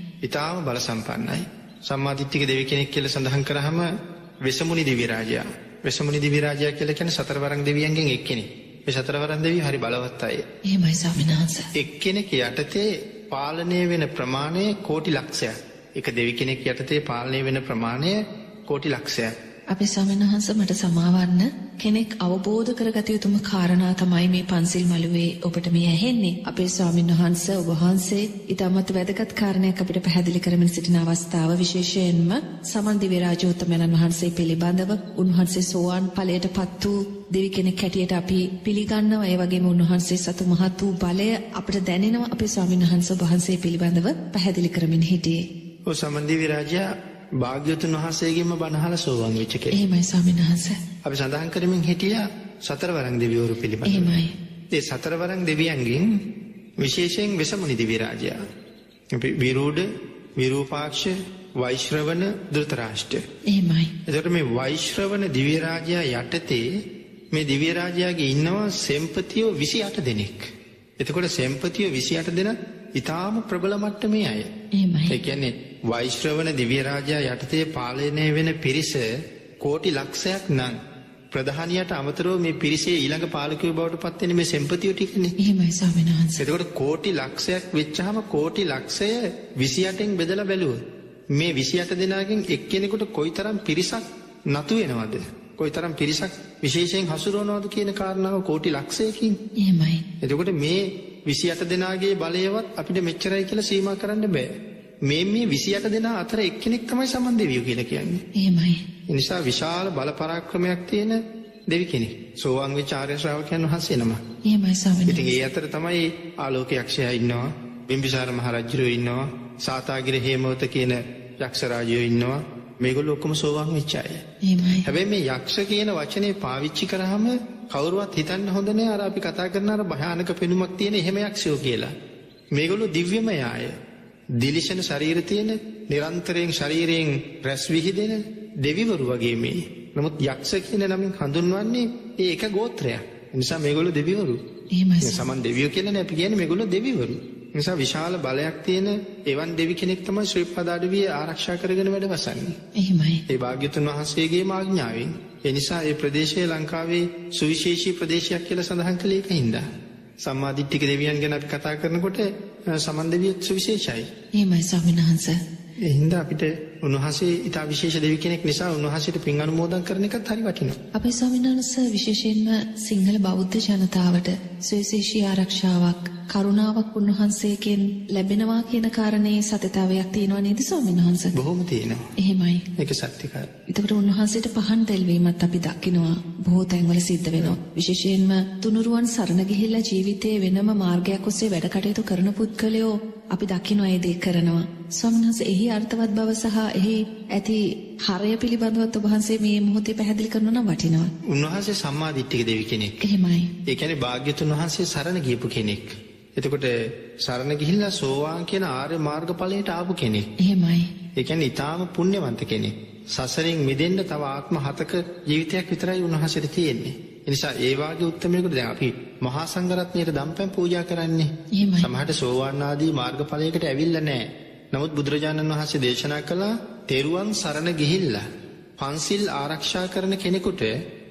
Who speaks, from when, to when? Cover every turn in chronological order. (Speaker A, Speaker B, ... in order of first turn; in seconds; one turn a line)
Speaker A: 0.2-3.9
Speaker A: 4.4-10.4
Speaker B: 10.7-11.7
Speaker A: 11.8-19.4
Speaker B: 19.7-45.5
Speaker A: 45.9-49.8
Speaker B: 49.7-50.8
Speaker A: 51.0-54.2
Speaker B: 53.8-54.4
Speaker A: 54.7-56.1
Speaker A: 56.8-58.5
Speaker A: 59.1-63.3
Speaker B: 63.5-63.9
Speaker A: 64.1-66.7
Speaker A: 67.3-74.5
Speaker B: 74.8-75.2
Speaker A: 75.1-80.8
Speaker A: 81.3-85.3
Speaker B: 85.4-86.4
Speaker A: 86.4-99.4
Speaker B: 99.6-100.0
Speaker A: 100.2-104.5
Speaker A: 105.0-108.2
Speaker B: 108.3-108.8
Speaker A: 109.1-114.2
Speaker B: 114.4-115.3
Speaker A: 115.1-124.2
Speaker B: 124.4-124.9
Speaker A: 124.8-131.9
Speaker A: 132.5-133.8
Speaker A: 134.3-144.4
Speaker B: 144.7-145.3
Speaker A: 145.0-152.6
Speaker B: 152.8-153.2
Speaker A: 153.3-159.7
Speaker A: 160.2-164.1
Speaker B: 164.3-165.4
Speaker A: 165.8-170.8
Speaker B: 170.9-181.3
Speaker A: 181.3-182.1
Speaker B: 182.2-182.7
Speaker A: 182.8-183.5
Speaker B: 183.7-201.1
Speaker A: 201.2-203.0
Speaker B: 203.0-203.5
Speaker A: 203.7-210.3
Speaker B: 210.4-210.9
Speaker A: 211.2-228.3
Speaker B: 221.5-221.9
Speaker A: 228.8-230.8